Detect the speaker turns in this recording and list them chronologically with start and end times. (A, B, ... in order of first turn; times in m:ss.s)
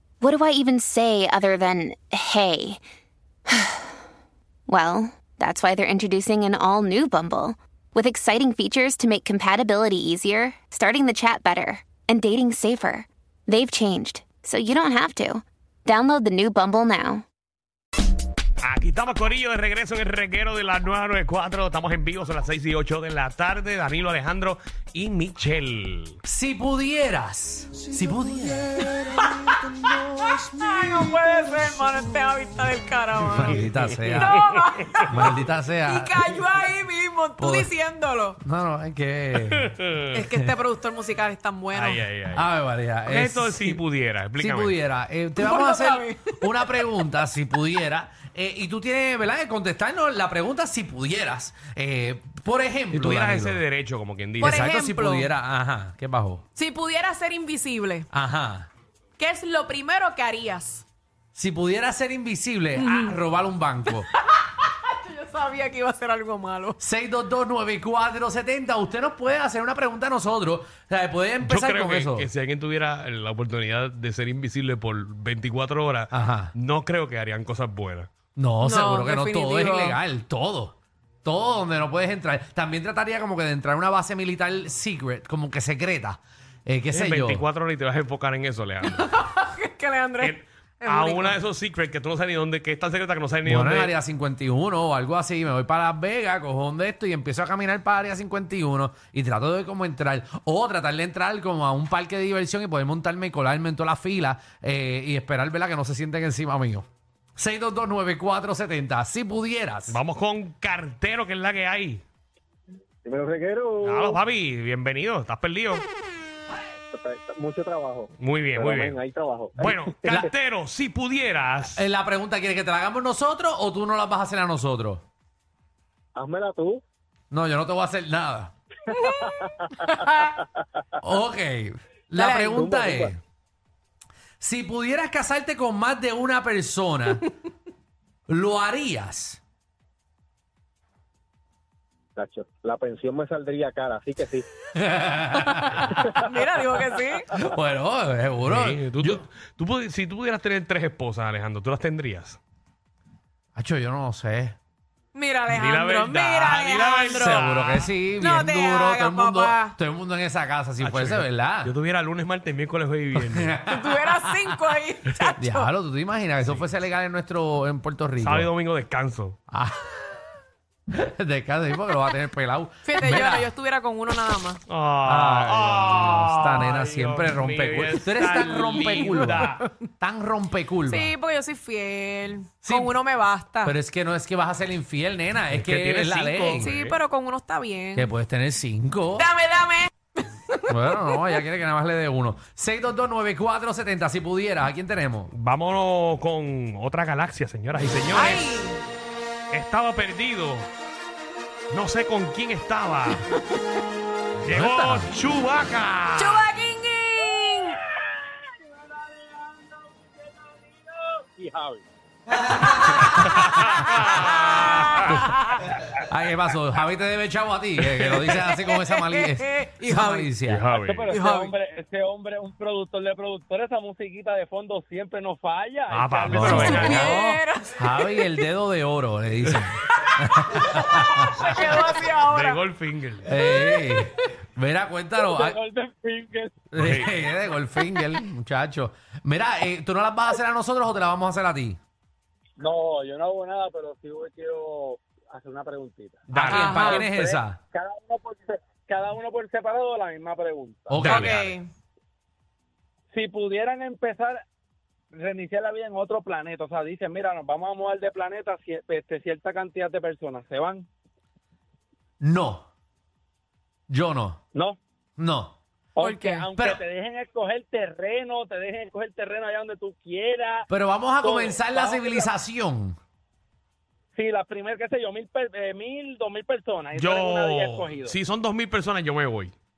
0:00.2-0:02.8 A
0:03.5-0:04.0 A
0:04.7-0:17.2 A
0:18.6-0:26.2 B
0:26.2-0:31.1 C
0:30.3-0:33.6 D
0:33.4-0:34.4 C
0:34.2-0:38.4 D
0:34.2-0:34.5 B
0:35.0-0:36.3 C
0:37.4-0:37.7 C
0:38.4-0:39.7 C
0:39.5-0:40.1 B
0:40.1-0:42.0 D
0:41.7-0:42.5 B
0:42.3-0:43.8 C
0:43.0-0:44.8 B
0:44.4-0:53.6 C
0:45.4-0:46.4 D
0:52.9-0:54.7 B
0:54.4-0:56.4 C
0:54.4-0:55.3 D
0:56.5-0:58.1 D
0:58.1-0:58.7 C
0:59.2-1:00.8 D
1:01.3-1:04.1 C
1:02.7-1:03.2 D
1:04.1-1:06.8 D
1:06.8-1:12.3 C
1:11.4-1:18.1 B
1:16.1-1:16.5 C
1:18.4-1:27.4 C
1:18.6-1:20.0 D
1:26.9-1:29.1 B
1:28.9-1:31.4 D
1:30.2-1:33.9 B
1:33.4-1:50.0 C
1:49.9-1:52.0 B
1:53.0-1:54.2 E
1:53.8-1:55.8 B
1:56.9-2:00.2 E
1:58.2-1:59.0 B
1:59.6-2:01.8 B
2:01.7-2:05.0 C
2:06.1-2:06.8 E
2:07.3-2:08.5 C
2:08.9-2:09.5 E
2:08.9-2:10.4 D
2:11.0-2:13.2 C
2:12.2-2:12.6 D
2:12.4-2:13.1 E
2:14.4-2:17.3 C
2:18.3-2:19.4 C
2:22.2-2:24.5 E
2:24.7-2:25.9 C
2:25.4-2:27.3 D
2:27.3-2:29.2 C
2:28.4-2:32.4 B
2:33.5-2:34.6 C
2:35.1-2:37.4 D
2:35.5-2:37.9 B
2:37.1-2:41.7 C
2:38.2-2:39.7 D
2:40.8-2:43.6 B
2:43.1-2:48.5 C
2:43.6-2:45.7 D
2:48.2-2:49.4 B
2:49.5-2:50.1 C
2:50.9-2:53.5 C
2:52.8-2:54.6 D
2:54.7-2:59.6 B
2:55.0-3:01.1 C
3:00.9-3:03.7 D
3:02.6-3:03.0 C
3:03.6-3:06.7 C
3:05.5-3:07.0 B
3:06.6-3:08.1 D
3:07.9-3:09.3 C
3:09.2-3:11.0 D
3:10.7-3:15.3 C
3:15.3-3:18.6 B
3:18.1-3:18.8 D
3:19.5-3:20.7 B
3:21.7-3:23.2 B
3:24.4-3:25.1 C
3:24.4-3:26.4 B
3:26.2-3:27.8 D
3:27.9-3:31.8 E
3:32.4-3:32.9 E
3:33.0-3:35.0 B
3:33.2-3:34.1 C
3:34.1-3:35.6 D
3:34.9-3:40.6 C
3:38.4-3:40.3 D
3:40.5-3:41.1 B
3:40.7-3:47.0 E
3:41.1-3:41.5 D
3:45.9-3:47.1 B
3:46.3-3:51.6 C
3:46.4-3:48.1 D
3:50.0-3:52.6 D
3:52.3-3:53.3 B
3:53.2-3:55.6 C
3:53.4-3:54.0 D
3:55.2-3:56.5 E
3:56.7-4:01.8 C
3:56.7-3:57.1 B
4:02.6-4:11.1 E
4:06.3-4:07.6 C
4:06.3-4:06.7 B
4:06.4-4:07.1 D
4:10.9-4:11.4 C
4:11.0-4:11.4 B
4:11.0-4:11.7 D
4:13.1-4:14.4 E
4:15.1-4:20.9 E
4:22.2-4:22.6 C
4:23.9-4:24.4 C
4:25.2-4:25.6 C
4:26.0-4:30.7 E
4:26.0-4:26.5 D
4:26.5-4:26.8 C
4:30.7-4:33.0 C
4:31.2-4:32.3 E
4:34.1-4:38.1 E
4:36.9-4:39.5 B